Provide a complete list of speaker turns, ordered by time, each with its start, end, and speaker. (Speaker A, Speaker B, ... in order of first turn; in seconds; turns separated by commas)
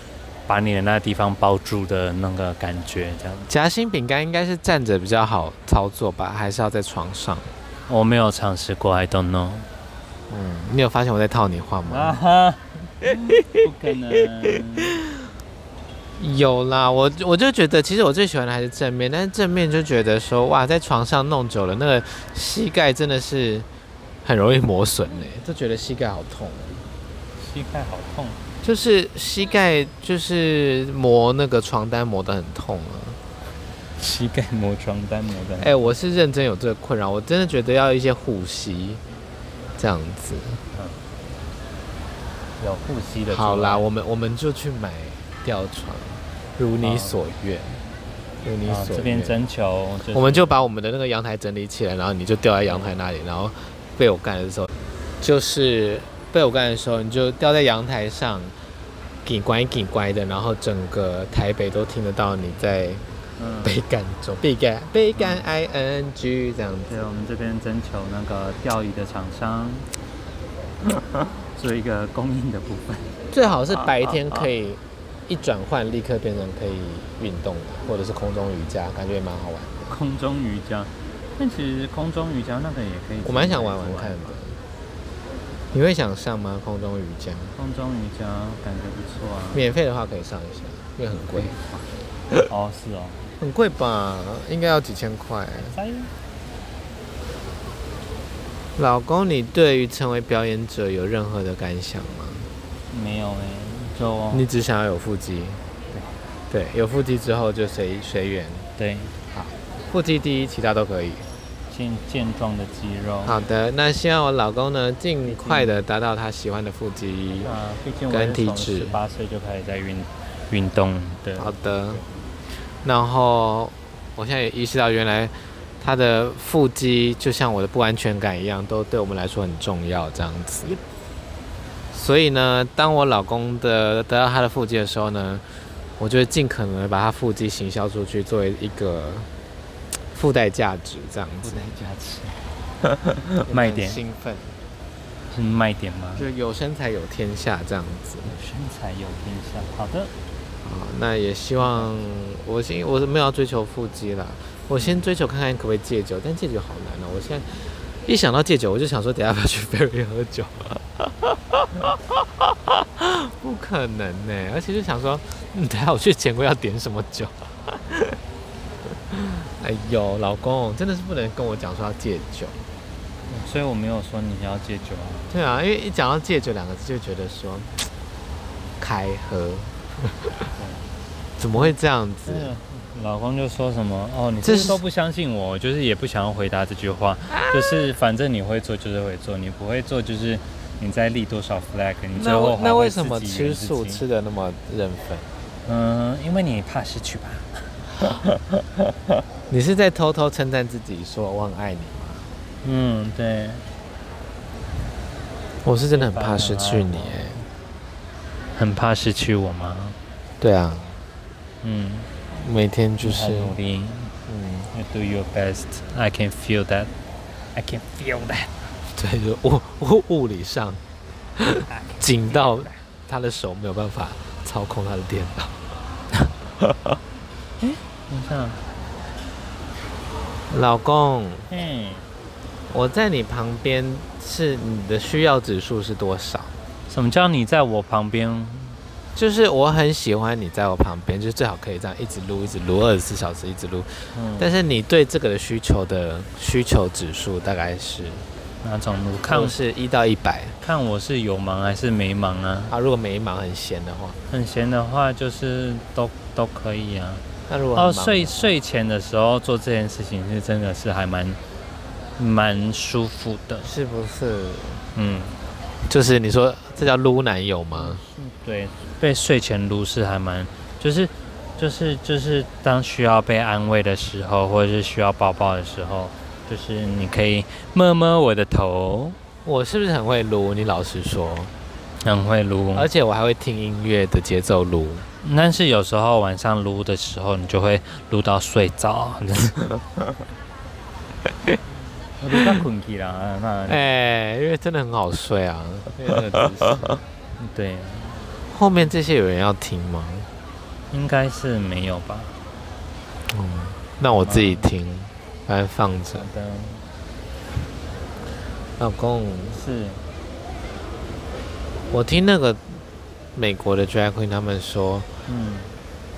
Speaker A: 0.5-3.5, Speaker B: 3.5-7.5, Speaker A: 7.9-9.7, Speaker B: 10.3-12.2, Speaker A: 11.8-15.0, Speaker B: 13.4-13.6, Speaker B: 14.6-14.9, Speaker B: 16.2-23.7, Speaker B: 24.2-26.9, Speaker A: 27.4-28.4, Speaker B: 28.6-33.2, Speaker A: 34.0-35.9, Speaker B: 35.6-39.0, Speaker B: 39.8-40.6, Speaker A: 42.6-43.8, Speaker B: 43.3-47.8, Speaker A: 46.8-47.2, Speaker B: 48.4-49.4, Speaker A: 48.6-50.5, Speaker B: 50.1-54.7, Speaker A: 52.7-52.9, Speaker B: 55.2-58.5, Speaker B: 59.2-63.0, Speaker A: 63.4-63.8, Speaker B: 63.6-67.0, Speaker A: 65.2-65.5, Speaker A: 66.9-69.9, Speaker A: 70.8-74.3, Speaker B: 73.3-79.9, Speaker A: 79.9-84.4, Speaker B: 83.2-84.6, Speaker B: 85.7-87.5, Speaker A: 87.5-89.7, Speaker B: 89.5-91.6, Speaker A: 91.1-91.9, Speaker A: 92.4-93.3, Speaker B: 93.4-95.8, Speaker A: 95.7-96.1, Speaker B: 98.8-102.5, Speaker A: 102.9-104.5, Speaker B: 104.3-105.6, Speaker B: 106.5-108.7, Speaker A: 108.8-109.2, Speaker B: 109.3-111.3, Speaker A: 111.7-113.4, Speaker B: 113.2-117.5, Speaker A: 115.2-115.8, Speaker A: 117.4-122.3, Speaker B: 118.1-119.0, Speaker B: 121.4-122.0, Speaker B: 122.8-130.8, Speaker B: 131.9-135.4, Speaker B: 136.0-139.3, Speaker B: 140.1-141.7, Speaker A: 141.4-142.4, Speaker A: 143.1-144.0, Speaker B: 143.4-144.5, Speaker A: 145.3-146.2, Speaker B: 146.2-148.3, Speaker A: 148.2-150.1, Speaker B: 150.6-168.2, Speaker A: 151.6-151.9, Speaker B: 169.1-172.6, Speaker A: 173.3-175.3, Speaker B: 175.3-177.9, Speaker B: 178.8-180.3, Speaker A: 180.6-180.9, Speaker B: 181.4-182.5, Speaker A: 182.2-194.0, Speaker B: 184.4-184.8, Speaker B: 187.3-187.8, Speaker B: 192.2-195.3, Speaker A: 195.6-198.4, Speaker B: 199.5-202.3, Speaker A: 202.6-203.7, Speaker B: 205.6-207.4, Speaker A: 205.9-207.4, Speaker A: 208.5-210.0, Speaker B: 210.4-211.0, Speaker A: 211.6-212.1, Speaker B: 212.3-213.5, Speaker A: 213.0-214.1, Speaker B: 214.3-214.7, Speaker A: 214.7-216.9, Speaker A: 217.5-218.5, Speaker B: 218.9-220.8, Speaker B: 221.4-225.6, Speaker A: 221.7-222.8, Speaker A: 227.6-228.6, Speaker B: 230.5-231.5, Speaker A: 231.5-232.1, Speaker B: 232.7-236.5, Speaker A: 236.9-238.8, Speaker B: 239.1-248.2, Speaker A: 244.1-244.5, Speaker A: 248.6-249.6, Speaker B: 249.3-250.6, Speaker A: 250.6-252.7, Speaker B: 252.7-254.2, Speaker A: 254.3-261.4, Speaker B: 257.5-258.5, Speaker A: 262.2-263.7, Speaker B: 263.6-264.9, Speaker A: 264.9-265.4, Speaker B: 265.9-268.0, Speaker A: 267.7-279.2, Speaker B: 279.4-281.5, Speaker A: 282.0-282.9, Speaker B: 282.7-285.1, Speaker A: 285.2-290.0, Speaker A: 292.2-293.9, Speaker B: 293.7-297.0, Speaker A: 296.0-296.8, Speaker A: 297.4-298.2, Speaker B: 298.5-300.3, Speaker A: 300.9-302.3, Speaker B: 303.3-306.2, Speaker A: 304.1-304.7, Speaker A: 306.1-306.9, Speaker B: 308.8-309.6, Speaker A: 309.5-310.0, Speaker B: 311.9-312.8, Speaker B: 313.4-315.1, Speaker A: 315.3-315.7